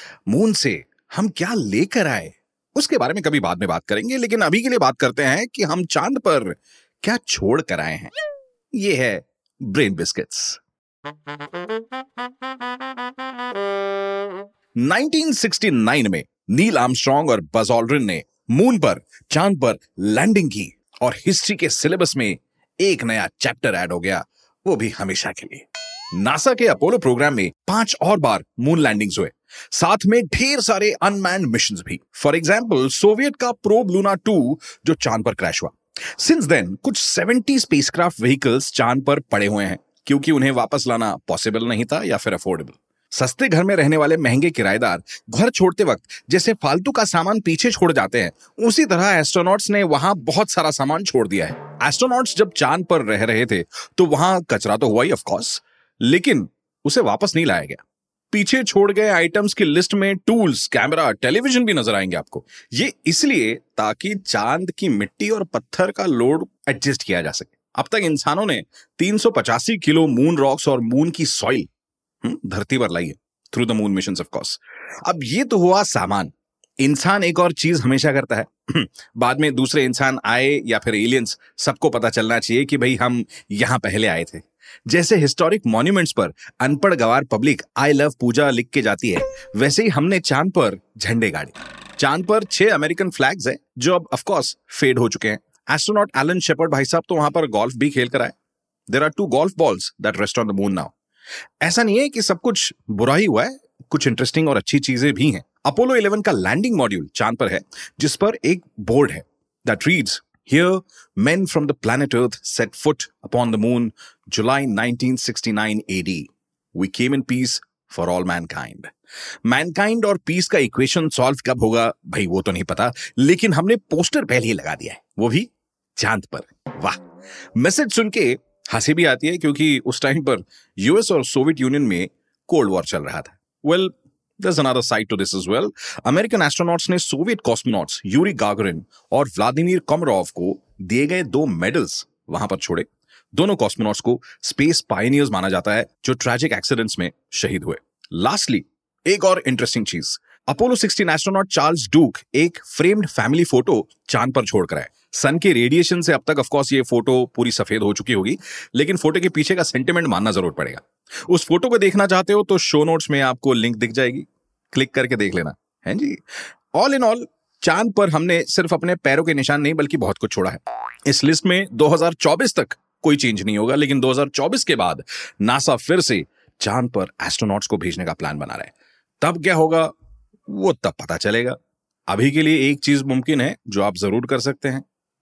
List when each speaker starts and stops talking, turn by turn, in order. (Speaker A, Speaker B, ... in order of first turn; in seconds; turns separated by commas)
Speaker A: 0.3-8.1, Speaker A: 8.7-10.6, Speaker A: 14.8-57.8, Speaker A: 58.3-71.7, Speaker A: 72.2-98.3, Speaker A: 98.9-100.9, Speaker A: 101.6-118.9, Speaker A: 119.4-127.0, Speaker A: 127.5-166.2, Speaker A: 166.7-179.9, Speaker A: 180.5-184.8